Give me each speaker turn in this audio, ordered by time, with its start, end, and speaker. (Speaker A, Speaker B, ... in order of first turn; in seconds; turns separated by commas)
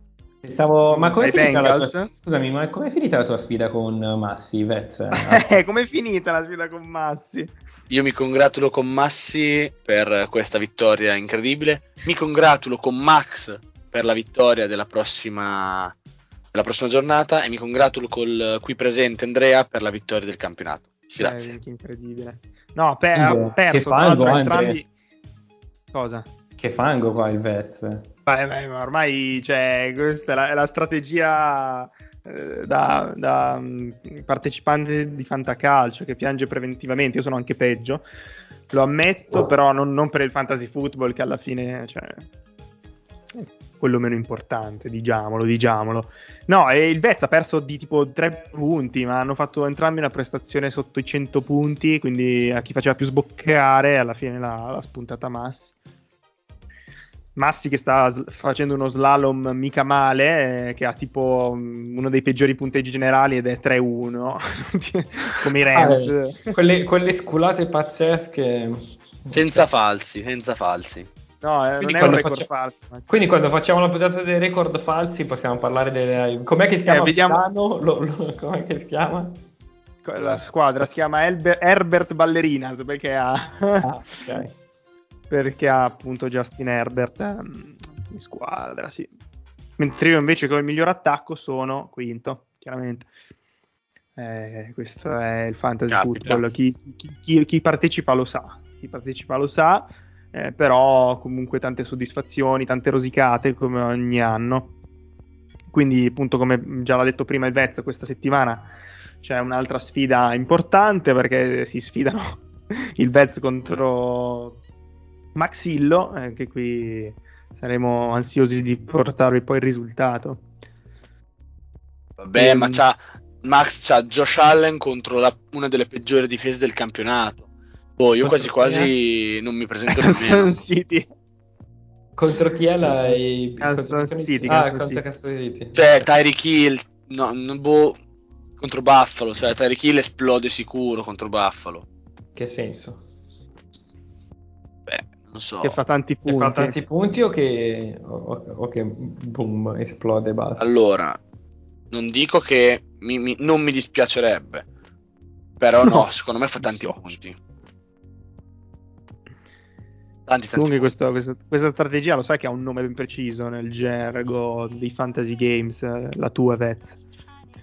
Speaker A: 0.4-5.6, Speaker B: 0.9-2.1, Speaker B: 5.2-7.5, Speaker C: 7.9-15.9, Speaker C: 16.5-21.6, Speaker B: 21.2-24.9, Speaker A: 23.2-24.8, Speaker B: 25.9-26.3, Speaker A: 26.6-28.1, Speaker B: 28.3-38.0, Speaker B: 38.7-42.3, Speaker B: 43.3-55.7, Speaker B: 57.4-66.6, Speaker A: 65.7-69.7, Speaker C: 69.3-71.1, Speaker B: 71.4-73.1, Speaker A: 71.8-72.5, Speaker A: 73.1-79.4, Speaker B: 76.9-77.4, Speaker B: 80.0-83.9, Speaker A: 83.8-84.5, Speaker B: 85.3-89.1, Speaker B: 89.8-93.1, Speaker B: 94.2-104.7, Speaker C: 95.9-96.4, Speaker B: 105.7-114.6, Speaker B: 115.4-120.4, Speaker C: 122.2-127.5, Speaker B: 122.4-122.8, Speaker C: 128.0-130.6, Speaker A: 128.2-128.9, Speaker B: 129.9-131.1, Speaker A: 132.2-136.1, Speaker B: 132.8-135.0, Speaker C: 135.7-138.0, Speaker C: 138.6-141.8, Speaker A: 142.3-143.0, Speaker C: 144.9-145.8, Speaker B: 145.6-146.8, Speaker A: 146.3-150.6, Speaker C: 150.6-151.2, Speaker C: 151.9-154.7, Speaker C: 155.6-157.3, Speaker B: 155.8-156.1, Speaker B: 156.6-157.2, Speaker C: 160.3-160.9, Speaker B: 160.5-167.0